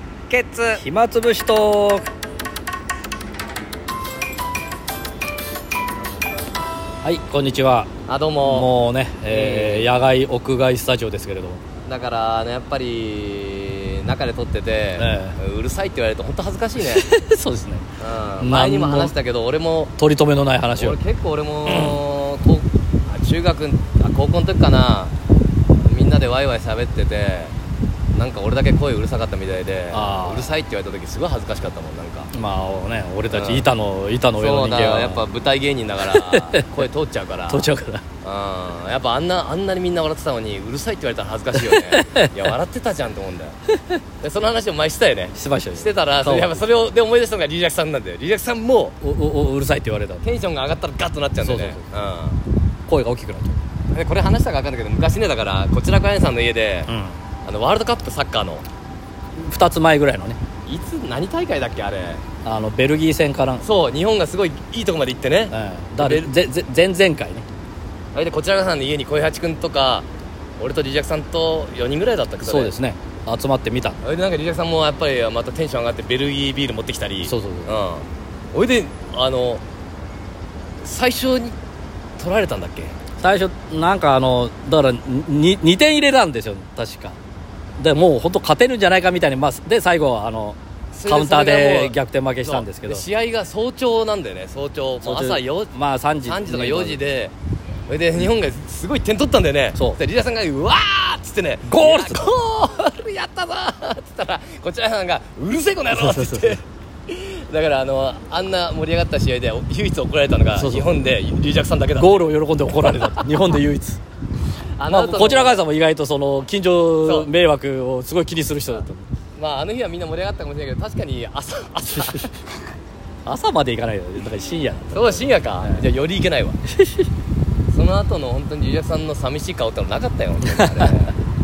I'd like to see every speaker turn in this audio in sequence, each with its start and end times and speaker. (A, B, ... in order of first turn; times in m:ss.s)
0:00.3-0:00.8 A
0:00.8-0:02.1 B
0:07.0-0:07.9 B
0:08.1-0:08.7 A
0:08.4-0:11.6 B
0:09.3-0:10.0 A
0:11.8-0:17.1 A
0:15.0-0:15.4 B
0:16.8-0:17.9 B
0:18.0-0:19.9 A
0:18.4-0:19.1 B
0:20.0-0:21.0 B
0:20.8-0:25.1 A
0:21.7-0:22.0 B
0:25.8-0:27.6 A
0:28.1-0:32.3 A
0:29.9-0:30.5 B
0:32.3-0:35.2 B
0:33.3-0:33.7 A
0:34.4-0:37.7 A
0:36.1-0:36.7 B
0:37.5-0:38.0 B
0:38.2-0:43.6 A
0:41.6-0:42.3 B
0:44.2-0:49.0 A
0:45.4-0:46.5 B
0:49.0-0:50.2 B
0:50.2-0:52.4 A
0:51.4-0:51.8 B
0:52.9-0:53.6 B
0:53.9-0:56.9 A
0:56.9-0:57.2 B
0:57.4-0:58.6 A
0:59.4-1:00.4 B
1:00.7-1:02.2 A
1:02.4-1:03.6 B
1:03.6-1:06.3 A
1:05.5-1:07.4 B
1:08.2-1:10.1 A
1:10.6-1:12.7 A
1:12.4-1:14.0 B
1:14.0-1:19.6 A
1:17.3-1:17.7 B
1:20.8-1:21.6 A
1:22.2-1:23.0 A
1:23.2-1:27.2 B
1:27.8-1:33.0 B
1:30.9-1:35.7 A
1:35.0-1:37.0 B
1:36.3-1:37.3 A
1:37.9-1:53.3 A
1:41.6-1:42.4 B
1:45.9-1:46.6 B
1:50.6-1:51.0 B
1:52.0-1:54.0 B
1:54.8-1:55.6 A
1:54.9-1:59.0 B
1:57.0-1:57.3 A
1:59.4-2:02.5 A
2:01.9-2:02.2 B
2:03.2-2:05.9 B
2:04.9-2:06.6 A
2:06.7-2:07.0 B
2:07.7-2:11.1 A
2:10.5-2:10.9 B